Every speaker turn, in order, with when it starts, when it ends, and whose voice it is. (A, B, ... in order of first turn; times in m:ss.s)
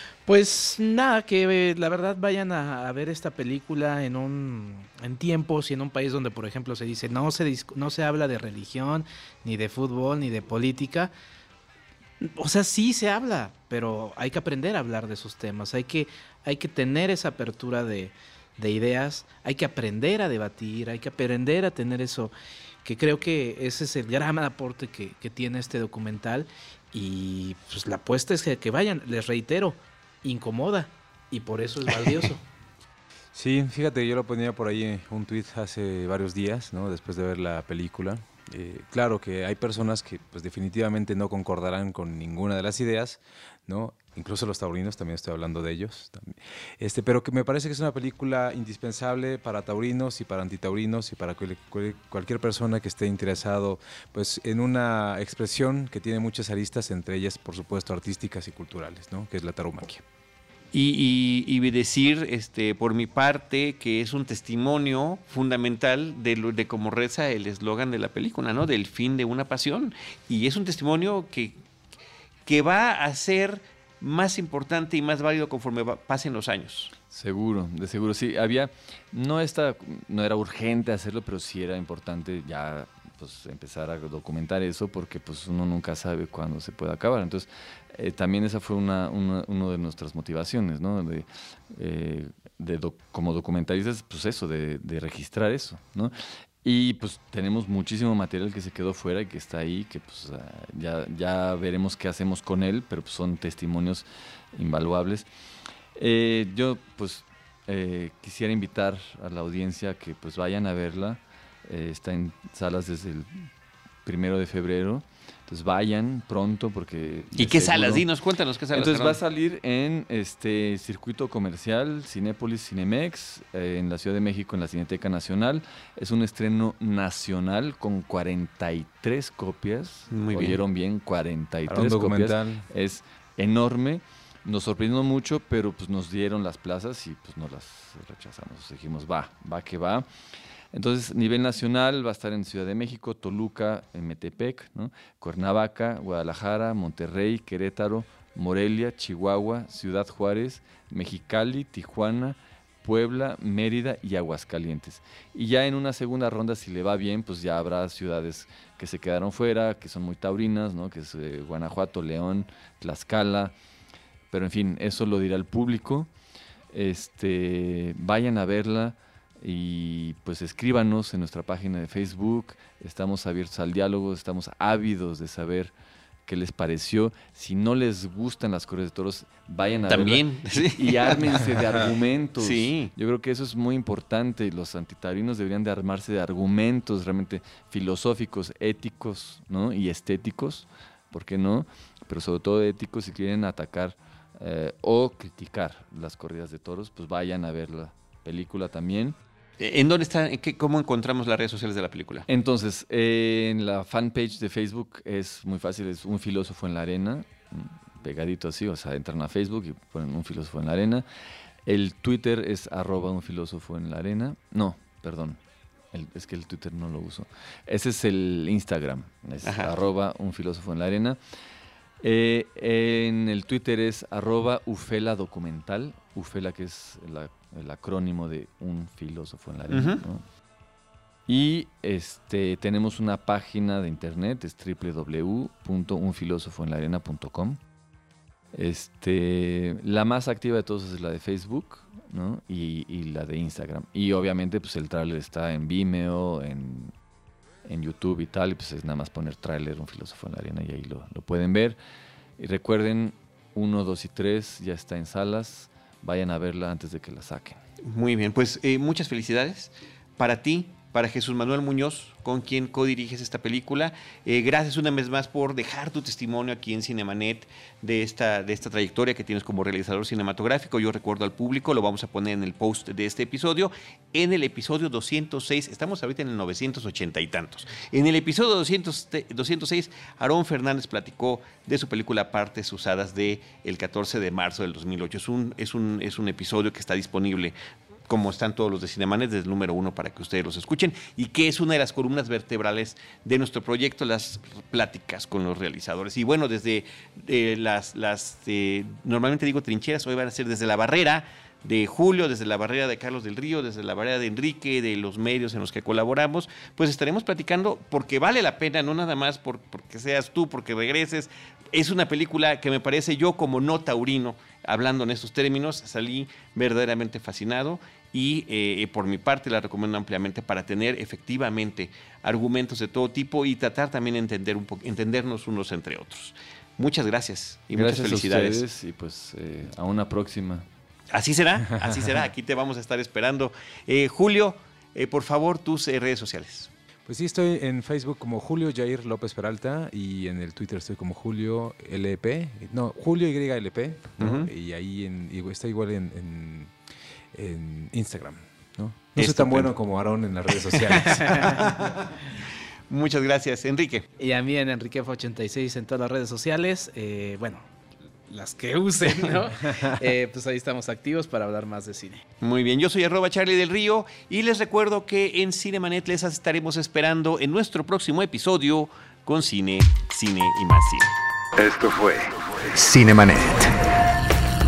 0:00.2-0:11.1 A
0:12.2-0:22.3 A
0:22.8-0:32.4 A
0:33.3-1:00.0 B
1:00.7-1:11.6 C
1:12.4-1:16.9 C
1:17.1-1:45.3 D
1:46.0-1:53.5 D
1:54.0-1:58.0 D
1:57.4-1:59.2 C
1:58.7-2:20.0 D
2:10.1-2:10.6 C
2:11.7-2:12.6 B
2:20.7-2:43.5 D
2:44.3-2:46.1 D
2:46.7-2:55.7 D
2:56.2-3:19.2 D
2:59.9-3:01.6 C
3:02.4-3:02.9 C
3:19.6-3:22.2 C
3:22.3-3:31.0 D
3:31.6-3:35.4 D
3:35.9-3:41.2 D
3:39.4-3:39.8 C
3:42.0-3:50.2 D
3:49.7-3:50.0 C
3:51.3-3:57.6 D
3:58.5-4:06.9 D
4:07.6-4:11.8 D
4:12.4-4:17.6 D
4:17.8-4:47.5 C
4:48.1-5:28.6 C
5:27.7-5:30.6 D
5:31.1-5:36.7 C
5:37.1-5:46.7 B
5:44.2-5:44.5 C
5:47.3-5:51.9 B
5:49.2-5:49.7 C
5:50.6-5:52.2 C
5:51.0-5:51.6 A
5:52.9-5:54.1 C
5:54.2-5:57.7 A
5:58.3-6:02.2 A
5:59.0-5:59.3 C
6:02.4-6:11.1 C
6:11.6-6:13.7 E